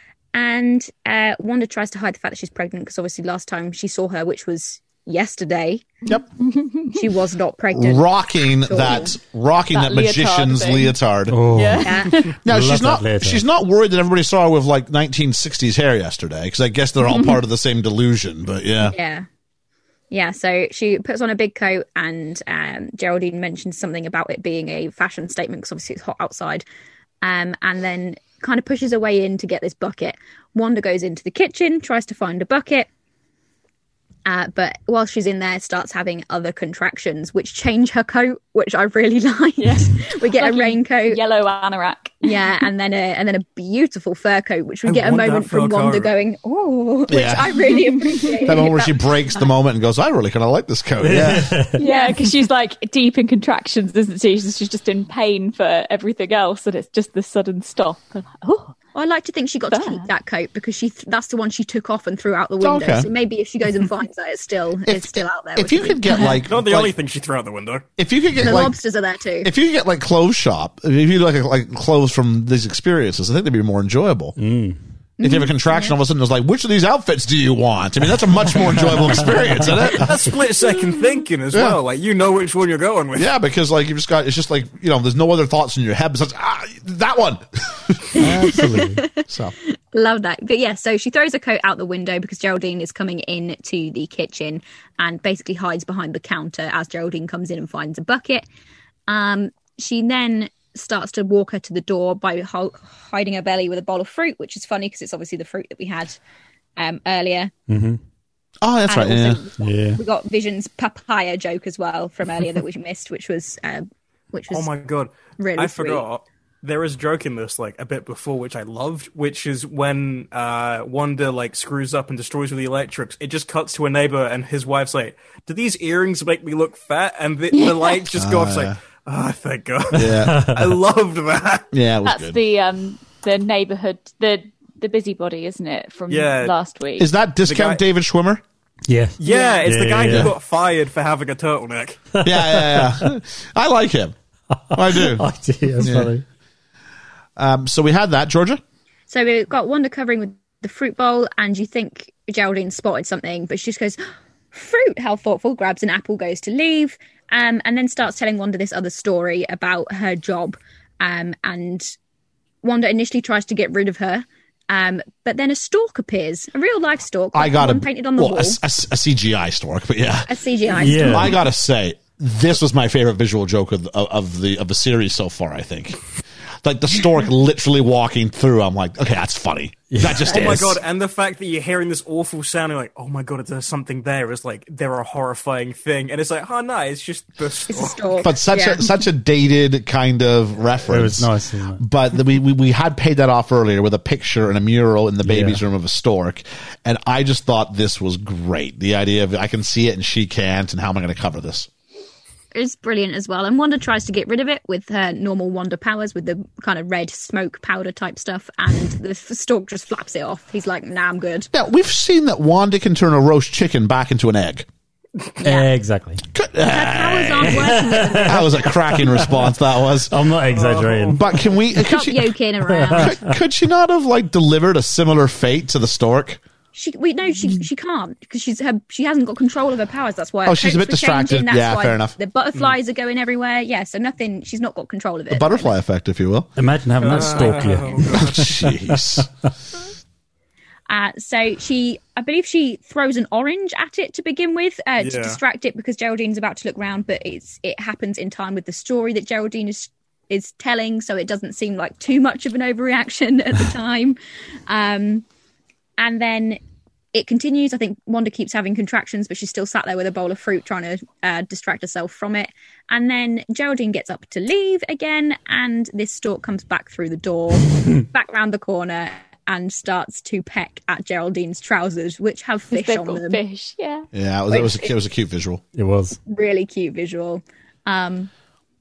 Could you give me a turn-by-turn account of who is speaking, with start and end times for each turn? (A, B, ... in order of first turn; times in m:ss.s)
0:00.3-0:06.0 A
0:06.4-0:06.9 B
0:06.9-0:09.1 A
0:07.7-0:11.8 C
0:09.7-0:10.9 B
0:11.3-0:13.4 D
0:11.5-0:12.4 B
0:11.8-0:12.3 A
0:12.4-0:18.9 C
0:18.8-0:19.3 A
0:20.1-0:26.6 A
0:27.2-0:32.9 A
0:34.2-0:41.2 A
0:39.6-0:42.4 B
0:42.2-0:49.3 A
0:44.8-0:46.1 E
0:47.1-0:47.5 C
0:48.1-0:48.5 B
0:48.4-0:51.6 C
0:51.0-0:51.8 D
0:51.8-0:58.7 B
0:51.8-0:52.2 A
0:58.9-1:06.2 A
0:59.7-1:00.0 B
1:02.6-1:03.1 C
1:04.8-1:06.9 C
1:06.2-1:07.8 E
1:08.0-1:08.8 C
1:08.4-1:09.5 A
1:09.4-1:14.4 C
1:14.4-1:14.8 D
1:15.2-1:15.9 A
1:15.2-1:20.2 C
1:19.9-1:23.3 E
1:21.5-1:21.8 C
1:23.1-1:28.6 C
1:28.2-1:29.1 D
1:28.9-1:38.4 A
1:29.3-1:29.5 C
1:39.1-1:46.2 A
1:46.8-1:47.5 A
1:47.7-1:48.0 D
1:48.6-1:49.4 C
1:48.9-1:54.7 A
1:49.6-1:50.0 D
1:54.5-2:11.7 E
1:55.4-1:56.0 A
2:08.2-2:08.8 C
2:09.9-2:10.5 C
2:10.3-2:10.7 D
2:11.7-2:12.4 C
2:12.0-2:17.1 B
2:16.1-2:16.5 E
2:17.0-2:18.4 C
2:17.4-2:17.8 E
2:18.9-2:20.3 D
2:19.2-2:22.0 E
2:19.3-2:19.6 B
2:20.0-2:20.3 C
2:22.2-2:24.1 C
2:22.2-2:23.0 D
2:24.7-2:25.2 C
2:24.7-2:26.2 D
2:25.8-2:26.1 C
2:27.4-2:28.6 C
2:29.1-2:41.9 A
2:42.6-2:48.6 A
2:47.3-2:50.3 C
2:50.3-2:51.4 A
2:50.8-2:51.4 D
2:50.8-2:56.0 C
2:56.6-3:00.8 C
2:59.9-3:00.4 D
3:00.2-3:08.1 E
3:07.7-3:08.9 A
3:08.2-3:21.7 C
3:10.9-3:11.8 D
3:15.2-3:15.6 D
3:22.5-3:31.5 A
3:31.5-3:34.7 C
3:35.4-3:35.7 A
3:35.4-3:36.2 D
3:36.3-3:40.2 C
3:36.6-3:38.7 A
3:37.4-3:39.5 D
3:40.0-3:41.4 D
3:40.5-3:41.2 E
3:41.1-3:42.3 C
3:41.7-3:43.1 A
3:42.7-3:43.2 D
3:42.9-3:46.4 C
3:46.7-3:55.7 A
3:50.4-3:52.2 C
3:55.3-3:56.5 C
3:56.6-3:59.2 D
3:57.0-3:58.5 E
3:58.1-3:59.3 C
4:00.9-4:14.2 A
4:05.0-4:05.4 E
4:14.7-4:15.2 A
4:16.0-4:16.6 A
4:17.1-4:33.4 A
4:32.7-4:34.1 B
4:34.1-4:35.6 C
4:34.5-4:34.9 A
4:35.7-4:36.2 D
4:36.2-4:38.3 A